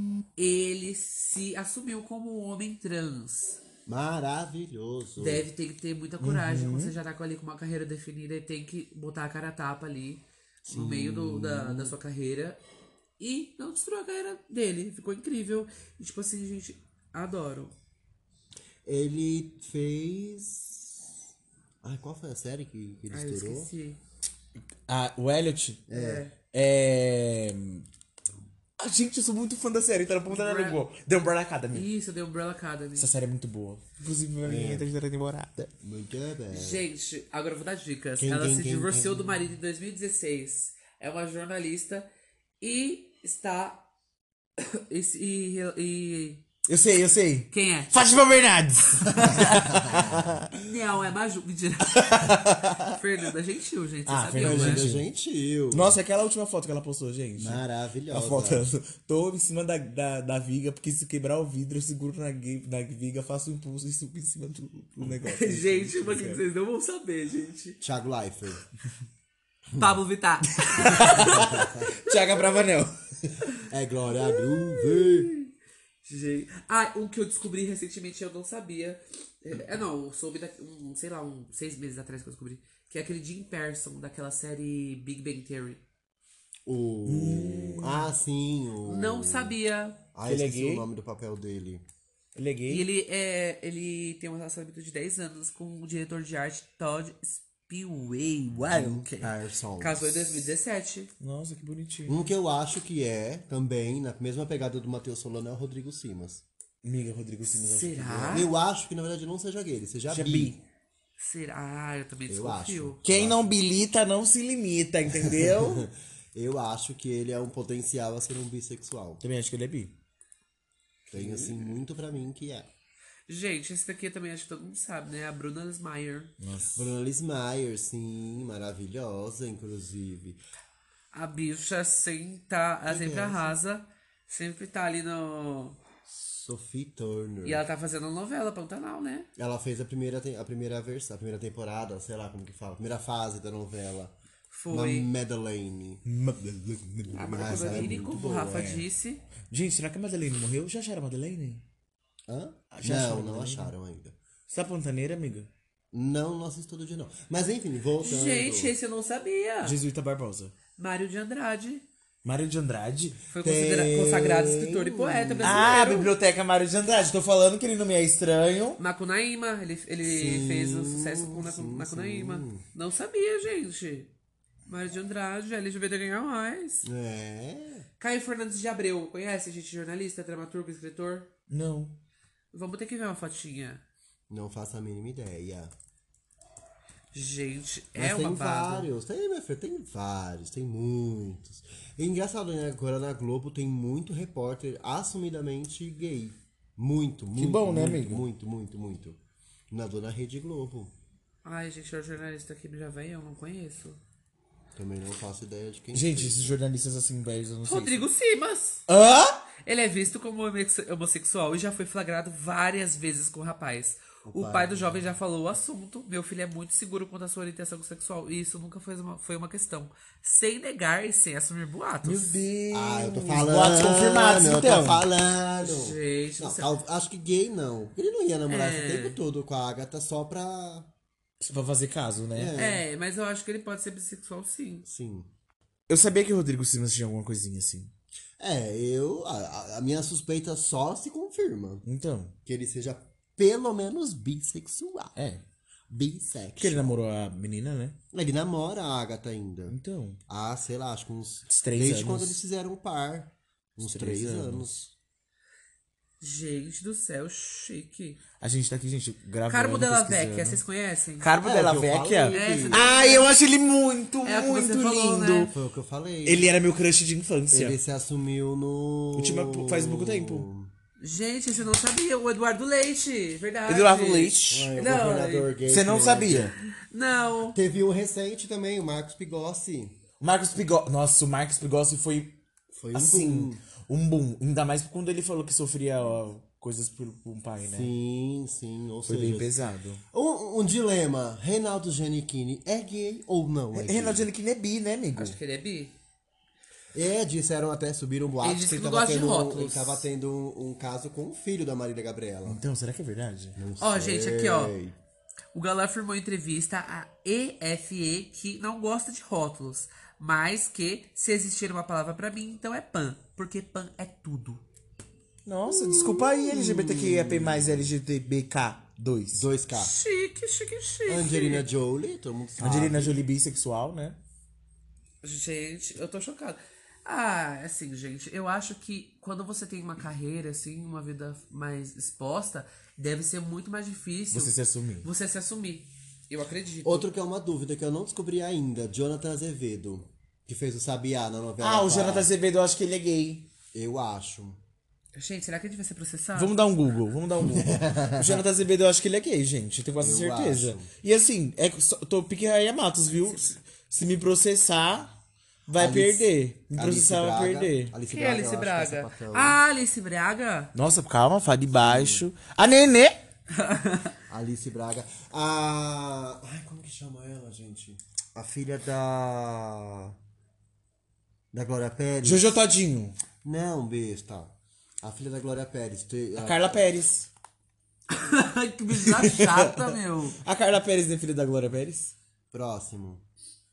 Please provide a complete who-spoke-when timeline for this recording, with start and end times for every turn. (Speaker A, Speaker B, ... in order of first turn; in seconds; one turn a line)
Speaker A: 0.4-3.6
Speaker B: 3.9-5.5
Speaker A: 5.2-12.6
Speaker C: 6.2-7.0
Speaker B: 10.7-12.0
Speaker A: 13.2-17.8
Speaker B: 18.9-21.1
Speaker B: 21.8-23.7
Speaker A: 23.1-24.0
Speaker C: 24.9-25.9
Speaker B: 25.9-26.2
Speaker A: 25.9-26.4
Speaker C: 26.5-27.9
Speaker C: 28.8-31.9
Speaker A: 30.3-30.8
Speaker A: 31.7-33.1
Speaker C: 33.0-35.7
Speaker B: 34.4-34.9
Speaker B: 35.8-36.8
Speaker A: 36.5-42.1
Speaker B: 38.2-39.4
Speaker A: 42.6-43.9
Speaker A: 44.6-46.5
Speaker C: 46.7-50.5
Speaker A: 47.5-48.0
Speaker A: 49.0-49.9
Speaker B: 49.7-50.3
Speaker A: 50.5-54.9
Speaker C: 51.9-53.0
Speaker C: 54.1-55.1
Speaker B: 54.4-56.0
Speaker C: 55.7-66.4
Speaker B: 57.4-58.7
Speaker A: 65.2-67.8
Speaker B: 67.8-68.6
Speaker A: 69.8-72.6
Speaker C: 70.6-73.3
Speaker B: 71.3-71.9
Speaker B: 73.7-75.3
Speaker A: 74.2-75.4
Speaker A: 76.0-85.8
Speaker B: 86.7-89.6
Speaker C: 87.1-88.1
Speaker A: 88.8-90.0
Speaker B: 90.1-91.8
Speaker C: 90.2-90.9
Speaker C: 92.3-92.8
Speaker A: 92.7-101.1
Speaker B: 98.6-100.5
Speaker C: 101.2-102.2
Speaker B: 102.1-106.4
Speaker C: 106.8-108.5
Speaker A: 107.5-108.5
Speaker B: 108.3-110.6
Speaker C: 110.1-110.6
Speaker A: 111.2-113.0
Speaker B: 112.3-113.6
Speaker C: 113.0-115.9
Speaker B: 115.1-119.2
Speaker C: 119.2-120.0
Speaker A: 121.1-121.7
Speaker B: 121.1-122.7
Speaker A: 123.3-126.3
Speaker C: 126.4-126.9
Speaker B: 126.7-130.4
Speaker A: 131.1-135.8
Speaker B: 132.9-133.6
Speaker B: 136.1-137.6
Speaker A: 137.4-139.3
Speaker B: 139.4-144.2
Speaker A: 144.5-145.1
Speaker B: 144.7-146.0
Speaker C: 146.1-148.8
Speaker A: 147.1-149.2
Speaker B: 147.2-148.7
Speaker C: 149.5-151.6
Speaker B: 152.3-154.2
Speaker C: 152.7-153.7
Speaker C: 154.5-155.5
Speaker B: 155.9-158.7
Speaker A: 158.0-159.8
Speaker C: 159.6-160.6
Speaker A: 160.8-161.9
Speaker C: 162.2-163.2
Speaker A: 163.3-166.1
Speaker B: 163.4-165.9
Speaker C: 165.4-168.8
Speaker A: 168.8-174.1
Speaker B: 170.0-172.6
Speaker A: 174.7-176.9
Speaker B: 176.8-177.9
Speaker A: 178.0-181.3
Speaker C: 181.5-182.0
Speaker A: 182.5-183.8
Speaker B: 184.3-185.7
Speaker A: 187.1-188.9
Speaker B: 188.0-199.2
Speaker C: 197.4-198.2
Speaker B: 199.7-200.9
Speaker A: 201.4-204.0
Speaker B: 204.8-206.5
Speaker C: 205.9-208.1
Speaker A: 207.7-208.9
Speaker C: 208.9-209.4
Speaker A: 209.7-222.4
Speaker B: 214.2-215.0
Speaker C: 222.0-225.1
Speaker B: 222.7-230.9
Speaker A: 225.6-226.8
Speaker A: 228.5-229.2
Speaker C: 231.4-232.6
Speaker B: 232.3-232.8
Speaker A: 232.6-234.9
Speaker B: 234.9-235.3
Speaker C: 235.9-237.9
Speaker B: 238.4-241.8
Speaker C: 241.8-242.3
Speaker B: 242.4-245.2
Speaker C: 245.2-245.4
Speaker B: 245.9-247.0
Speaker C: 246.6-248.0
Speaker B: 248.1-249.8
Speaker C: 249.7-250.2
Speaker B: 250.3-254.9
Speaker C: 251.5-252.4
Speaker C: 253.8-254.8
Speaker A: 256.2-258.2
Speaker C: 258.4-260.6
Speaker A: 259.5-261.3
Speaker C: 261.2-265.5
Speaker B: 261.4-263.0
Speaker A: 262.3-263.3
Speaker A: 264.2-265.5
Speaker B: 265.5-266.5
Speaker C: 266.2-267.8
Speaker B: 267.5-270.7
Speaker C: 269.1-270.5
Speaker A: 271.0-275.5
Speaker C: 273.7-274.7
Speaker B: 274.5-276.6
Speaker C: 275.7-276.6
Speaker A: 276.7-277.6
Speaker B: 277.5-280.0
Speaker C: 280.2-282.4
Speaker B: 282.7-283.6
Speaker C: 282.9-287.9
Speaker B: 287.6-289.5
Speaker C: 289.1-290.0
Speaker B: 290.1-294.3
Speaker C: 293.8-295.4
Speaker A: 295.1-295.9
Speaker B: 296.9-302.6
Speaker A: 298.4-300.1
Speaker C: 302.5-303.6
Speaker B: 303.6-305.0
Speaker A: 303.8-304.8
Speaker A: 305.5-314.6
Speaker C: 315.5-319.5
Speaker B: 315.7-317.9
Speaker B: 319.3-319.9
Speaker A: 319.8-321.6
Speaker B: 321.1-323.2
Speaker C: 322.6-324.2
Speaker A: 325.2-337.1
Speaker C: 334.3-335.1
Speaker B: 336.8-342.3
Speaker C: 341.6-343.5
Speaker B: 343.7-344.6
Speaker A: 345.1-346.6
Speaker C: 346.4-355.1
Speaker B: 347.4-348.4
Speaker B: 350.0-350.9
Speaker C: 355.7-357.9
Speaker B: 355.8-359.6
Speaker A: 358.1-360.7
Speaker C: 360.8-363.2
Speaker B: 361.8-362.2
Speaker A: 363.5-364.1
Speaker B: 364.3-370.1
Speaker B: 371.5-372.6
Speaker C: 372.2-373.2
Speaker B: 373.4-376.9
Speaker C: 376.4-377.3
Speaker A: 378.1-380.4
Speaker C: 378.9-382.1
Speaker B: 382.5-383.2